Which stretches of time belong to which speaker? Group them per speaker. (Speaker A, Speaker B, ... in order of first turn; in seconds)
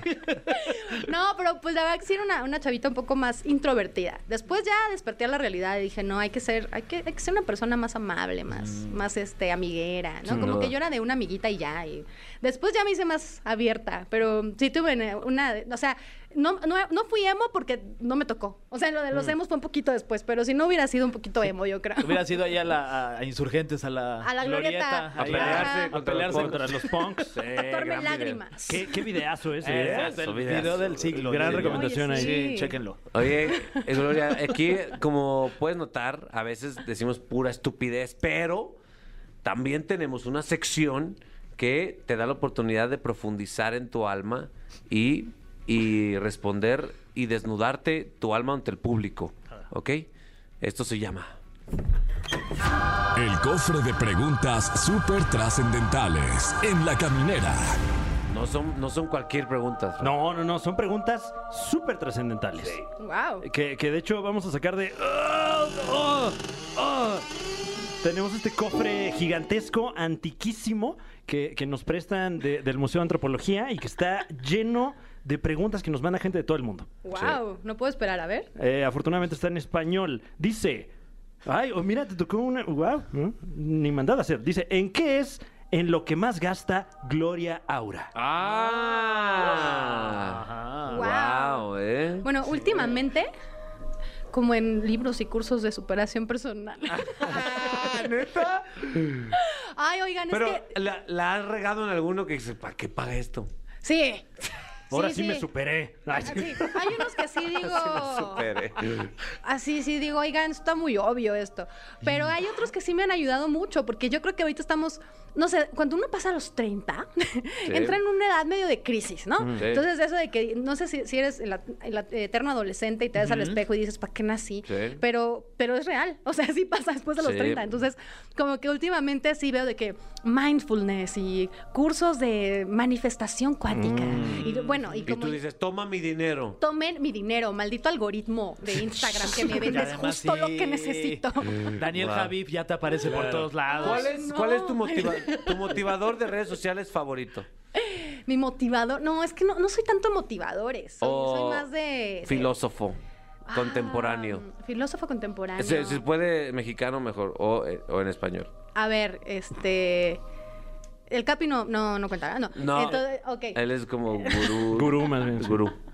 Speaker A: 0.5-22.2, 24.2-25.9, 27.5-28.9, 31.4-32.8, 33.3-34.6, 63.0-63.4, 77.0-78.5, 90.9-91.7, 92.2-93.3, 94.3-98.0, 99.3-100.7, 103.8-104.3, 104.9-105.5, 106.2-108.5, 109.4-135.4, 136.6-141.7, 143.7-145.5, 147.8-152.5, 153.5-156.0, 158.7-160.2, 161.1-163.6, 164.2-164.6
Speaker B: 8.6-8.9, 22.0-26.9, 29.6-33.0, 89.5-91.0, 123.2-123.6, 134.1-134.7, 139.5-144.1
Speaker C: 10.2-10.7, 25.2-26.8, 27.3-28.4, 29.7-31.7, 33.1-38.8, 39.4-50.1, 50.6-51.4, 58.3-60.1, 88.1-92.3, 97.2-99.3, 100.3-103.5, 107.6-109.1, 117.7-118.0, 119.6-119.8, 124.7-125.0, 127.2-127.6, 135.0-136.6, 141.7-142.3, 143.0-147.5, 151.0-151.7, 152.2-153.0, 153.5-154.4, 155.6-158.5, 162.5-165.8
Speaker D: 25.3-27.4, 28.7-30.4, 31.1-32.5, 60.0-62.8, 63.4-67.2, 68.0-76.9, 78.6-80.9, 81.5-88.1, 104.9-107.1, 119.4-119.7, 133.7-134.4, 164.7-165.7
Speaker E: 53.1-57.8